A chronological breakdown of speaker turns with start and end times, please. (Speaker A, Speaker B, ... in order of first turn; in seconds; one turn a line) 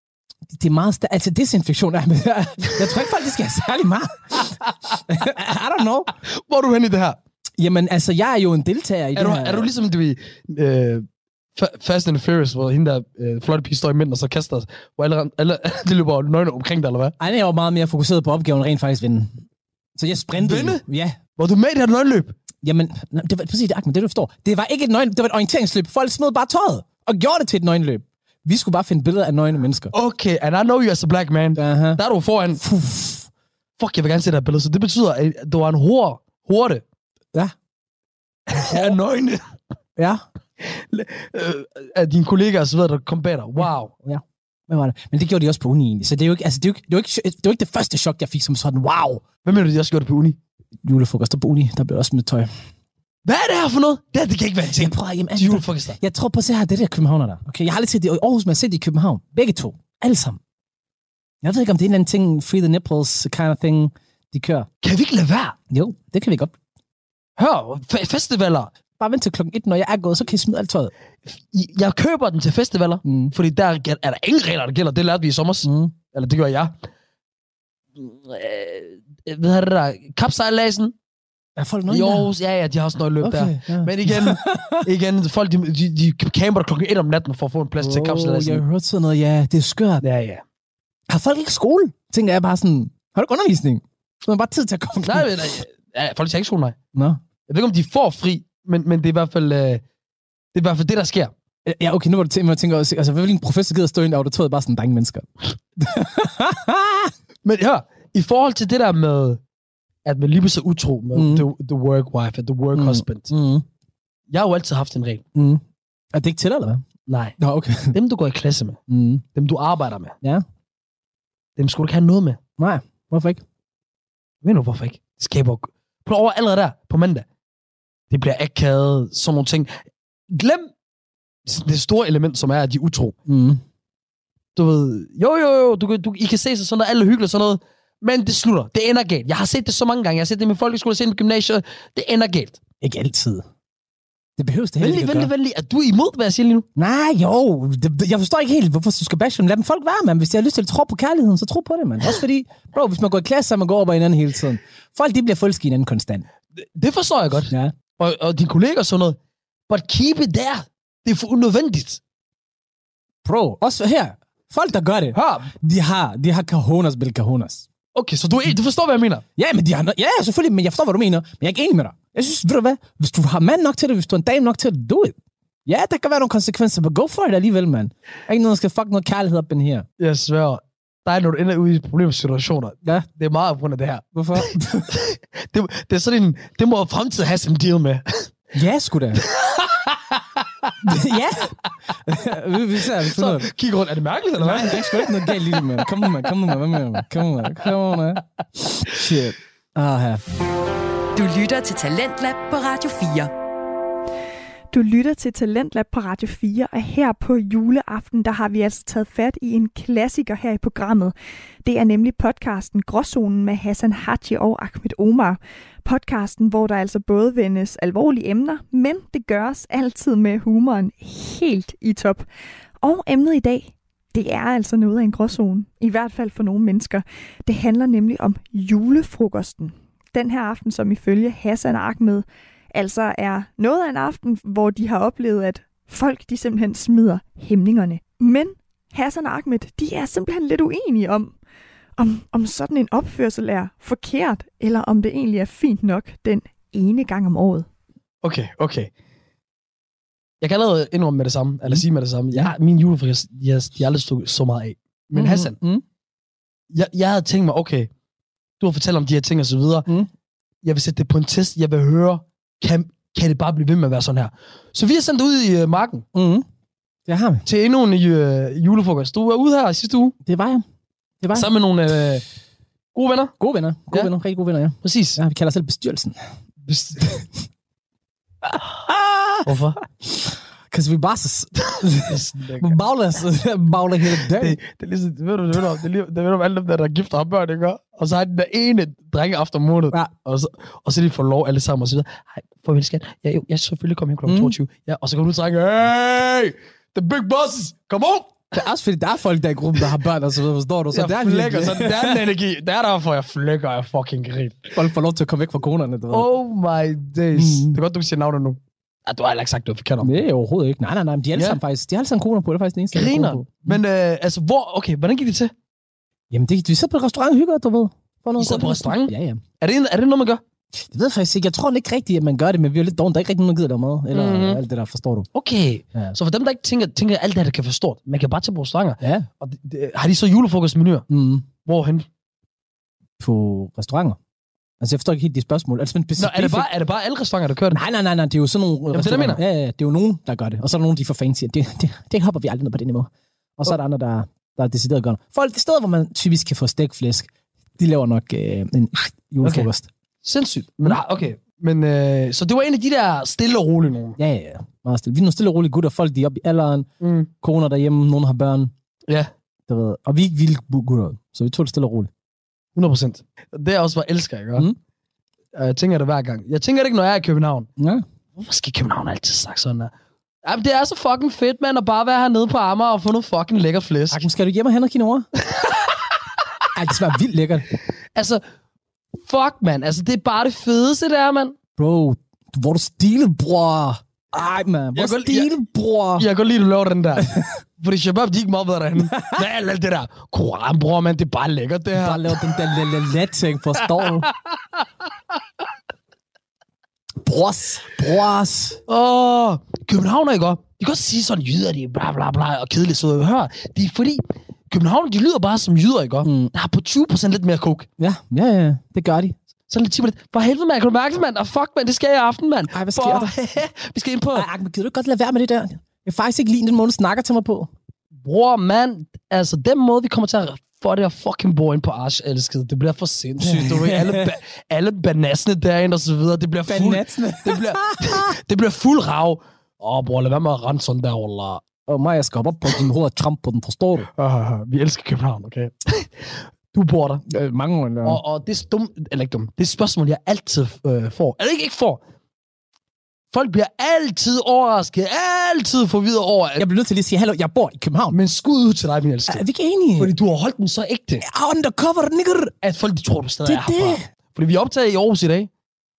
Speaker A: 0.5-4.4
Speaker A: 5.1-6.1
Speaker B: 6.4-7.2
Speaker A: 7.6-9.7
Speaker B: 9.1-17.1
Speaker A: 17.2-19.4
Speaker A: 20.0-21.2
Speaker B: 20.4-20.8
Speaker B: 21.4-22.4
Speaker A: 22.6-29.9
Speaker B: 29.9-32.6
Speaker A: 31.6-32.0
Speaker A: 32.6-33.3
Speaker B: 33.8-36.8
Speaker B: 38.5-39.5
Speaker A: 40.0-40.2
Speaker B: 40.6-43.9
Speaker A: 44.0-49.3
Speaker B: 49.4-50.4
Speaker A: 50.8-52.5
Speaker B: 53.2-56.0
Speaker A: 54.8-60.4
Speaker A: 61.4-64.7
Speaker B: 64.8-65.6
Speaker A: 65.7-66.5
Speaker B: 67.4-68.7
Speaker A: 69.0-70.9
Speaker B: 71.3-76.8
Speaker A: 73.0-73.3
Speaker A: 75.6-76.0
Speaker B: 78.0-80.9
Speaker A: 81.6-82.3
Speaker B: 81.9-88.6
Speaker A: 83.2-84.8
Speaker A: 87.8-90.0
Speaker B: 90.0-90.4
Speaker A: 91.1-95.3
Speaker B: 95.0-96.8
Speaker A: 96.9-97.2
Speaker B: 97.4-99.8
Speaker B: 100.5-101.3
Speaker A: 101.7-107.1
Speaker B: 107.4-109.4
Speaker B: 110.0-113.3
Speaker A: 111.1-111.5
Speaker A: 112.7-113.6
Speaker B: 114.3-115.2
Speaker A: 115.3-115.6
Speaker A: 116.1-116.8
Speaker B: 117.0-117.3
Speaker A: 117.4-117.9
Speaker B: 117.9-118.8
Speaker A: 118.9-119.2
Speaker B: 119.3-120.2
Speaker B: 121.6-122.4
Speaker A: 122.6-123.4
Speaker B: 124.4-127.2
Speaker B: 128.1-129.7
Speaker B: 130.3-130.7
Speaker B: 131.4-133.1
Speaker A: 133.3-133.6
Speaker B: 134.6-142.6
Speaker A: 142.8-143.4
Speaker A: 144.4-145.3
Speaker B: 144.8-146.7
Speaker A: 146.8-156.2
Speaker B: 156.6-159.2
Speaker A: 157.5-157.8
Speaker B: 159.7-162.0
Speaker A: 163.2-167.7
Speaker B: 165.1-165.5
Speaker B: 167.9-169.2
Speaker A: 169.3-175.1
Speaker A: 175.7-179.8
Speaker B: 180.0-188.3
Speaker A: 184.1-184.9
Speaker A: 188.5-189.2
Speaker B: 189.2-190.7
Speaker A: 190.8-191.5
Speaker A: 192.1-193.5
Speaker B: 192.8-196.3
Speaker A: 194.4-200.2
Speaker C: 201.1-203.3
Speaker D: 204.7-211.1
Speaker D: 211.6-222.2
Speaker D: 222.8-241.3
Speaker D: 242.0-247.7
Speaker B: 248.2-248.9
Speaker B: 250.4-255.6
Speaker A: 251.7-252.5
Speaker A: 255.1-255.8
Speaker B: 256.7-257.9
Speaker B: 258.6-259.9
Speaker B: 260.6-266.1
Speaker A: 266.1-266.4
Speaker A: 267.1-267.4
Speaker B: 267.4-270.1
Speaker A: 270.2-270.6
Speaker A: 271.2-271.5
Speaker B: 271.3-272.2
Speaker B: 272.9-273.3
Speaker A: 273.4-276.2
Speaker B: 274.8-275.2
Speaker B: 276.6-277.2
Speaker A: 278.9-279.5
Speaker B: 279.4-279.8
Speaker A: 280.0-284.6
Speaker B: 281.6-282.8
Speaker B: 284.0-298.5
Speaker A: 294.2-294.6
Speaker A: 298.5-302.2
Speaker B: 300.9-304.8
Speaker A: 304.7-306.3
Speaker B: 306.1-310.2
Speaker A: 307.4-307.8
Speaker A: 310.0-313.8
Speaker B: 311.3-311.6
Speaker B: 312.9-315.5
Speaker A: 316.3-319.4
Speaker B: 318.4-320.4
Speaker A: 320.9-325.3
Speaker B: 324.1-324.6
Speaker B: 325.3-332.1
Speaker A: 329.0-329.3
Speaker A: 331.1-331.5
Speaker A: 333.2-334.2
Speaker A: 334.8-336.7
Speaker B: 336.1-337.8
Speaker A: 337.7-349.9
Speaker B: 338.9-339.4
Speaker B: 349.4-349.7
Speaker B: 350.2-354.2
Speaker A: 354.2-356.9
Speaker B: 357.0-357.3
Speaker A: 357.4-358.7
Speaker A: 359.7-362.1
Speaker B: 362.8-364.7
Speaker B: 365.5-367.7
Speaker A: 367.8-368.0
Speaker B: 368.3-369.9
Speaker B: 370.4-374.3
Speaker A: 374.1-375.3
Speaker A: 376.7-377.6
Speaker B: 378.1-378.4
Speaker B: 379.2-381.6
Speaker A: 381.8-386.2
Speaker B: 384.9-385.5
Speaker B: 386.1-392.8
Speaker A: 389.1-389.4
Speaker A: 391.9-394.3
Speaker B: 393.8-394.3
Speaker A: 397.2-398.8
Speaker B: 398.9-407.9
Speaker A: 406.2-406.5
Speaker A: 408.0-409.4
Speaker B: 409.7-414.5
Speaker A: 412.7-413.3
Speaker A: 414.4-417.7
Speaker B: 418.2-431.6
Speaker A: 423.4-424.3
Speaker A: 426.7-428.3
Speaker A: 431.9-434.1
Speaker B: 434.1-437.2
Speaker A: 437.3-438.2
Speaker B: 438.0-442.0
Speaker B: 443.3-446.7
Speaker A: 446.6-448.2
Speaker B: 448.1-449.4
Speaker A: 449.3-450.1
Speaker B: 450.0-451.2
Speaker A: 451.2-452.5
Speaker B: 452.6-455.5
Speaker A: 453.4-454.1